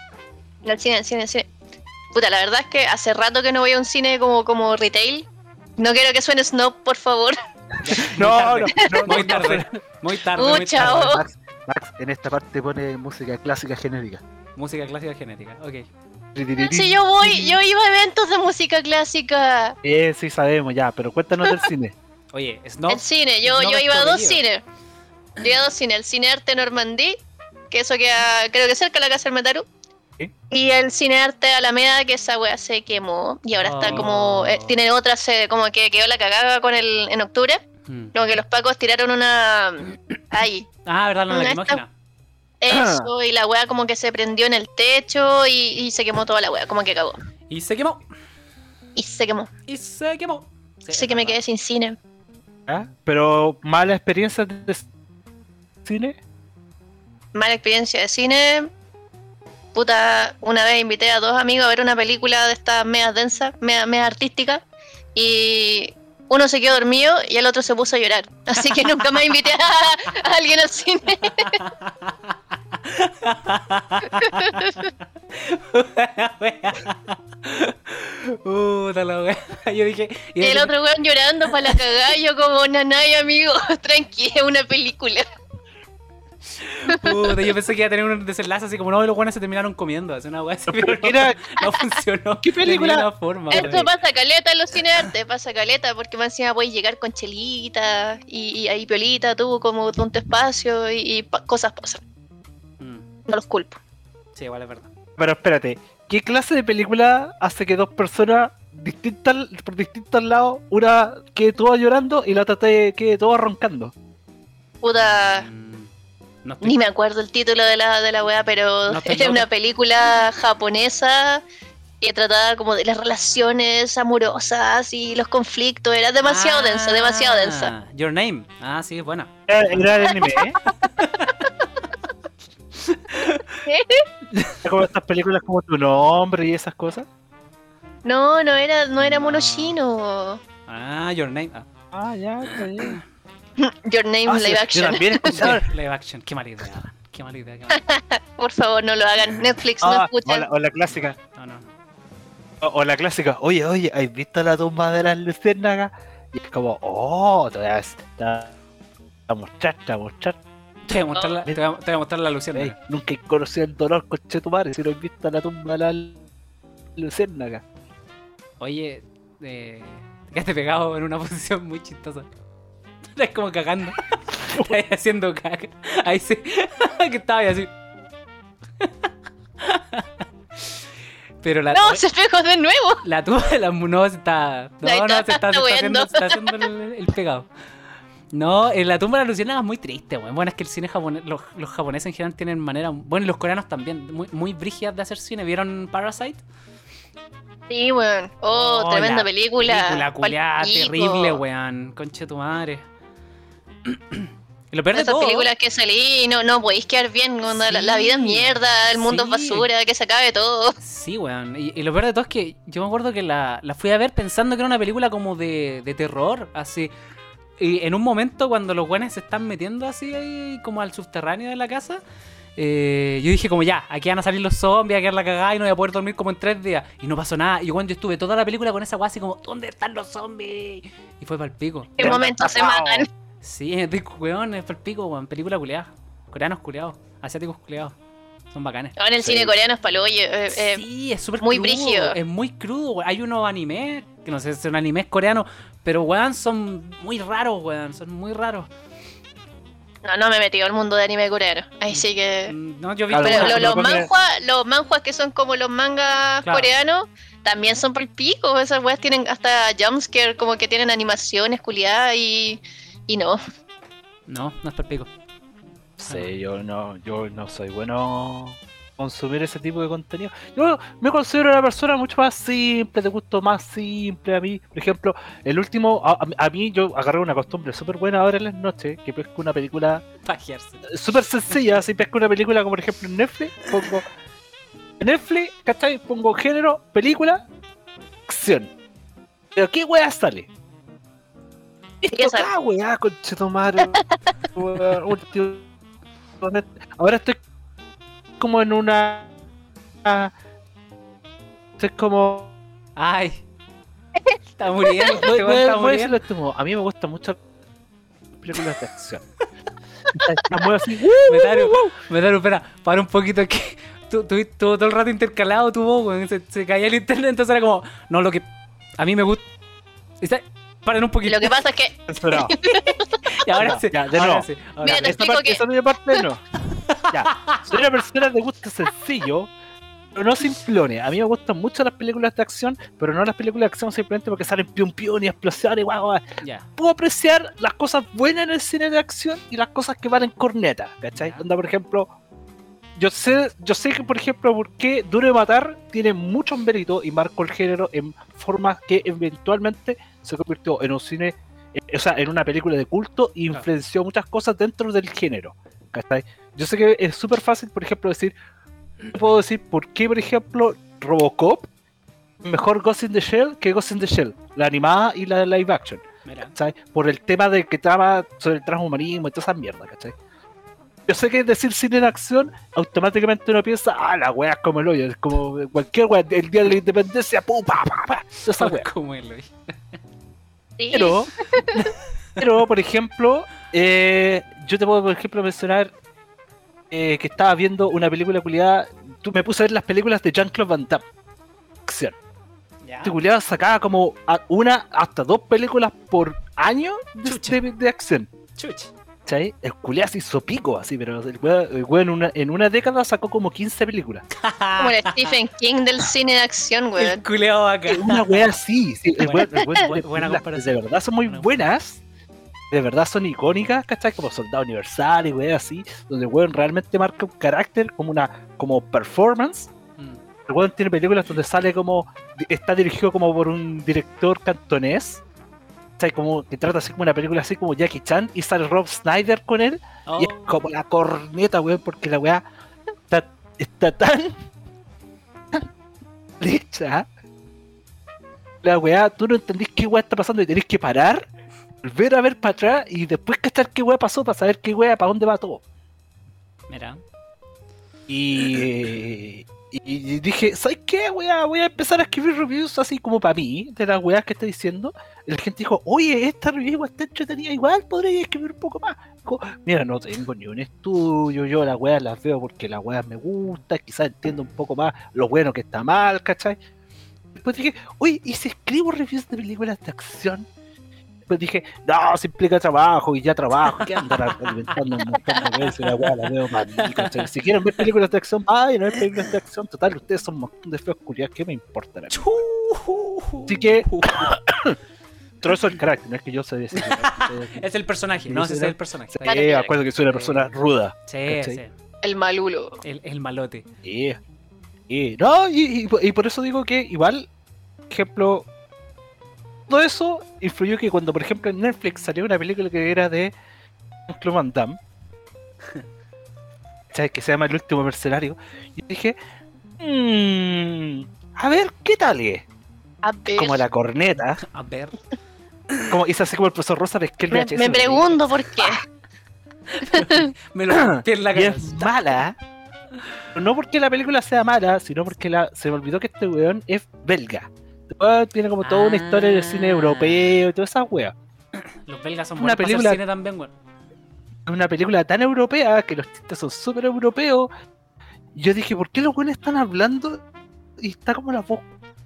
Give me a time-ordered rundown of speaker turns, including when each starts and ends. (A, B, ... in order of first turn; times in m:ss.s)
0:00.6-0:01.5 A
0:02.1-0:05.3 A
0:05.8-0:07.4 A
0:07.8-0:11.1 B
0:07.8-0:09.7 C
0:10.3-0:11.2 A
0:10.7-0:14.2 C
0:14.6-0:15.8 B
0:16.3-0:17.6 C
0:16.6-0:19.8 A
0:19.8-0:21.9 C
0:22.3-0:24.4 B
0:22.9-0:24.6 A
0:25.4-0:29.6 A
0:30.5-0:37.6 A
0:33.6-0:34.8 B
0:37.9-0:38.1 B
0:38.1-0:40.7 A
0:40.8-0:41.9 B
0:41.3-0:41.8 A
0:42.6-0:47.2 A
0:42.7-0:43.1 C
0:47.5-0:48.0 B
0:49.0-0:49.5 A
0:49.7-0:51.4 B
0:50.9-0:52.0 A
0:52.7-0:54.8 C
0:55.8-0:56.2 C
0:57.3-0:58.7 A
0:59.7-1:04.6 A
1:05.1-1:11.6 A
1:11.3-1:20.7 B
1:14.2-1:14.9 A
1:20.4-1:25.2 A
1:26.6-1:33.9 B
1:26.9-1:27.5 A
1:30.7-1:31.4 C
1:32.4-1:33.8 C
1:33.5-1:42.0 A
1:42.8-1:43.0 B
1:43.3-1:43.8 A
1:44.4-1:44.9 B
1:45.2-1:53.9 C
1:54.8-1:55.5 A
1:55.0-1:55.9 B
1:56.4-1:56.8 B
1:56.6-2:01.4 A
1:58.9-1:59.5 B
2:02.0-2:07.7 A
2:06.2-2:11.5 B
2:09.5-2:10.6 C
2:12.8-2:13.6 B
2:13.6-2:14.0 A
2:14.3-2:14.6 B
2:14.6-2:17.0 C
2:18.0-2:20.4 A
2:19.0-2:19.8 B
2:20.7-2:21.6 B
2:21.9-2:23.0 C
2:22.5-2:23.0 B
2:23.6-2:25.5 A
2:24.2-2:25.7 C
2:25.3-2:27.8 B
2:27.7-2:30.5 A
2:29.8-2:31.2 C
2:31.3-2:31.6 B
2:32.6-2:38.5 C
2:39.3-2:40.4 C
2:40.8-2:42.7 B
2:42.5-2:46.2 C
2:47.0-2:47.6 C
2:48.6-2:52.3 B
2:53.1-2:57.7 B
2:54.5-2:54.7 C
2:59.6-3:00.1 B
3:01.4-3:02.0 B
3:01.7-3:03.0 A
3:03.0-3:07.5 B
3:04.8-3:06.5 A
3:08.3-3:16.4 B
3:17.7-3:21.4 A
3:18.5-3:22.8 B
3:23.8-3:25.5 B
3:24.9-3:30.8 A
3:27.5-3:29.7 B
3:30.8-3:36.9 B
3:37.6-3:42.0 B
3:42.6-3:52.2 B
3:52.0-3:53.1 A
3:52.0-3:53.1 C
3:53.4-3:57.9 B
3:58.5-3:59.0 B
3:59.0-4:00.8 A
3:59.2-3:59.5 C
4:00.5-4:08.7 B
4:01.4-4:02.2 A
4:10.0-4:12.5 A
4:11.9-4:14.0 B
4:13.1-4:14.1 C
4:13.2-4:23.4 A
4:16.4-4:16.7 B
4:24.3-4:25.1 B
4:26.0-4:40.0 C
4:40.2-4:40.8 B
4:40.9-4:44.1 C
4:45.0-4:47.4 C
4:48.3-4:48.7 C
4:49.5-4:50.5 C
4:52.0-4:54.0 C
4:52.1-4:52.5 A
4:53.8-4:54.2 A
4:54.5-4:55.7 C
4:56.4-4:57.4 C
4:58.4-4:59.3 C
5:00.0-5:00.3 C
5:01.8-5:02.5 C
5:03.0-5:03.4 B
5:04.1-5:05.2 A
5:04.6-5:06.2 B
5:05.1-5:07.4 C
5:08.4-5:09.2 C
5:10.1-5:11.9 C
5:11.2-5:18.4 B
5:19.0-5:19.4 B
5:20.2-5:21.6 B
5:21.2-5:23.1 A
5:22.1-5:22.5 C
5:23.3-5:25.2 B
5:23.5-5:26.4 C
5:24.8-5:25.6 A
5:26.9-5:27.6 B
5:27.1-5:29.5 C
5:30.1-5:36.2 C
5:36.4-5:36.6 B
5:36.8-5:42.1 C
5:41.1-5:41.4 B
5:43.0-5:58.3 C
5:59.1-6:01.7 C
6:02.4-6:10.1 C
6:06.2-6:06.5 B
6:11.1-6:18.9 C
6:18.6-6:19.5 B
6:20.8-6:21.8 A
6:20.9-6:25.9 C
6:26.9-6:31.0 C
6:31.8-6:32.2 C
6:32.8-6:33.1 B
6:33.0-6:38.3 C
6:37.2-6:37.6 B
6:38.6-6:38.9 B
6:39.3-6:44.2 C
6:44.3-6:45.4 B
6:44.8-6:47.2 A
6:47.0-6:48.5 B
6:47.9-6:52.0 C
6:49.2-6:51.5 B
6:52.7-6:59.7 C
7:00.5-7:05.2 C
7:06.0-7:12.4 C
7:10.0-7:10.6 B
7:13.1-7:14.4 C
7:16.4-7:17.1 C
7:18.6-7:21.3 C
7:21.8-7:25.6 C
7:26.7-7:27.0 B
7:28.1-7:46.6 C
7:47.3-7:50.5 C
7:51.3-8:02.2 C
7:53.6-7:54.8 B
7:55.3-7:56.2 B
7:56.8-7:57.3 B
8:02.1-8:04.3 B
8:03.5-8:04.8 C
8:05.4-8:07.6 C
8:06.7-8:09.5 B
8:08.3-8:11.6 C
8:09.2-8:09.7 A
8:10.0-8:10.5 B
8:11.1-8:11.7 B
8:12.0-8:12.8 A
8:12.8-8:13.6 B
8:13.8-8:14.2 C
8:14.9-8:17.3 C
8:17.9-8:18.4 C
8:19.7-8:23.3 C
8:24.1-8:24.8 C
8:26.9-8:29.2 C
8:29.8-8:32.4 C
8:33.0-8:33.6 A
8:33.4-8:34.4 C
8:34.4-8:35.0 B
8:35.9-8:38.6 C
8:37.3-8:38.8 A
8:39.7-8:42.1 B
8:39.9-8:40.2 A
8:40.7-8:42.4 C
8:43.3-8:51.1 C
8:48.6-8:50.4 B
8:51.5-8:53.5 B
8:52.4-8:53.0 C
8:54.5-8:57.5 C
8:58.3-9:00.2 C
9:00.8-9:01.7 C